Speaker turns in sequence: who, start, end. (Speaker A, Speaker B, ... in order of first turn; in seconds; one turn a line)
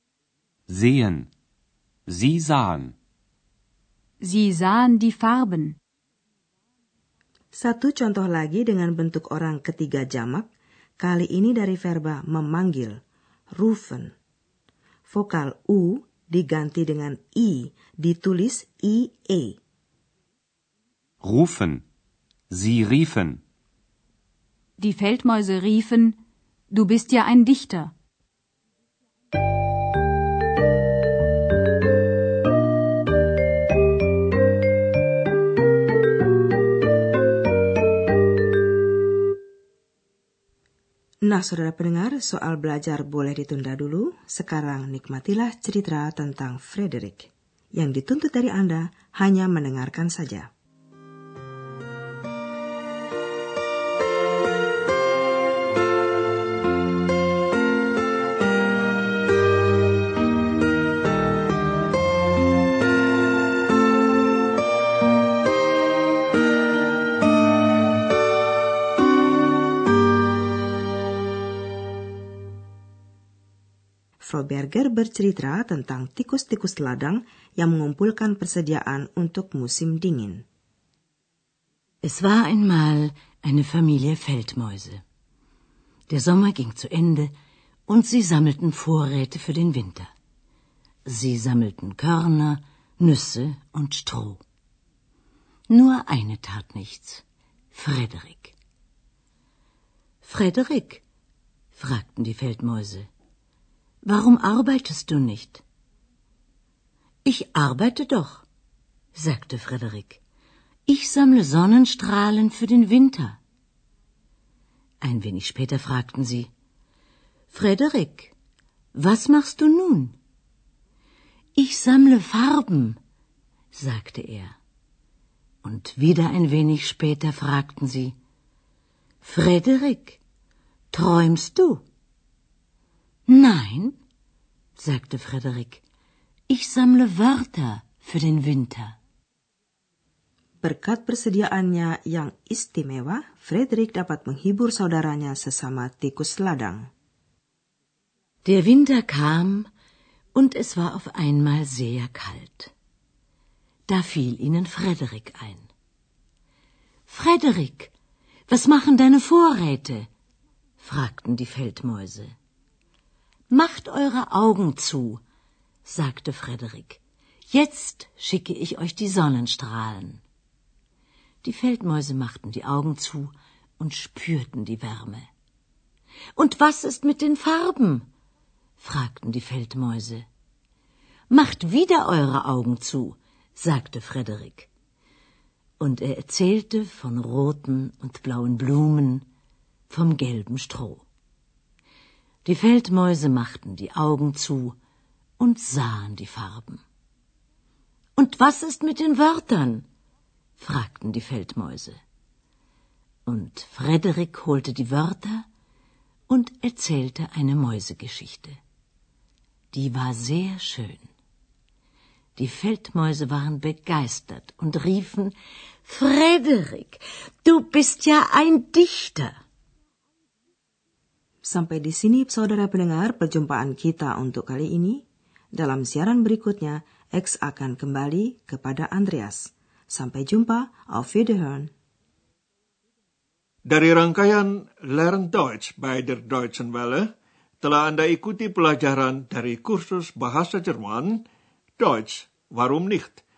Speaker A: 0.7-1.3
Speaker A: 2.1-3.0
Speaker B: 4.2-5.8
Speaker C: 7.5-10.5
Speaker C: 11.0-13.0
Speaker C: 13.6-14.1
Speaker C: 15.1-19.6
Speaker A: 21.2-21.8
Speaker A: 22.5-23.4
Speaker B: 24.8-26.2
Speaker B: 26.7-27.9
Speaker C: 41.3-50.5
Speaker C: 74.2-80.5
Speaker D: 82.0-85.0
Speaker D: 86.1-87.3
Speaker D: 87.9-90.1
Speaker D: 91.1-94.4
Speaker D: 95.7-98.5
Speaker D: 100.2-101.0
Speaker D: 101.7-103.1
Speaker D: 104.0-105.6
Speaker D: 107.2-108.5
Speaker D: 109.2-110.2
Speaker D: 110.9-113.4
Speaker D: 115.0-116.5
Speaker D: 117.5-118.3
Speaker D: 118.9-120.2
Speaker D: 121.6-123.0
Speaker D: 123.7-124.6
Speaker D: 125.6-128.2
Speaker D: 129.2-130.2
Speaker D: 130.9-131.8
Speaker D: 133.3-134.0
Speaker D: 134.8-135.8
Speaker D: 136.5-139.0
Speaker C: 140.6-146.9
Speaker D: 148.4-149.7
Speaker D: 150.3-152.7
Speaker D: 153.9-155.7
Speaker D: 157.1-157.9
Speaker D: 158.5-160.1
Speaker D: 160.8-162.3
Speaker D: 163.5-165.2
Speaker D: 165.8-170.2
Speaker D: 171.4-175.3
Speaker D: 176.4-178.1
Speaker D: 178.8-180.3
Speaker D: 181.3-184.7
Speaker D: 185.8-189.3
Speaker D: 189.9-191.1
Speaker D: 192.4-194.8
Speaker D: 195.4-196.8
Speaker D: 198.2-199.8
Speaker D: 200.6-202.0
Speaker D: 203.3-205.5
Speaker D: 206.3-208.6
Speaker D: 209.7-211.1
Speaker D: 212.4-219.3
Speaker C: 221.5-225.0
Speaker C: 225.6-231.7
Speaker E: 233.7-237.1
Speaker E: 237.6-241.2
Speaker E: 241.8-243.2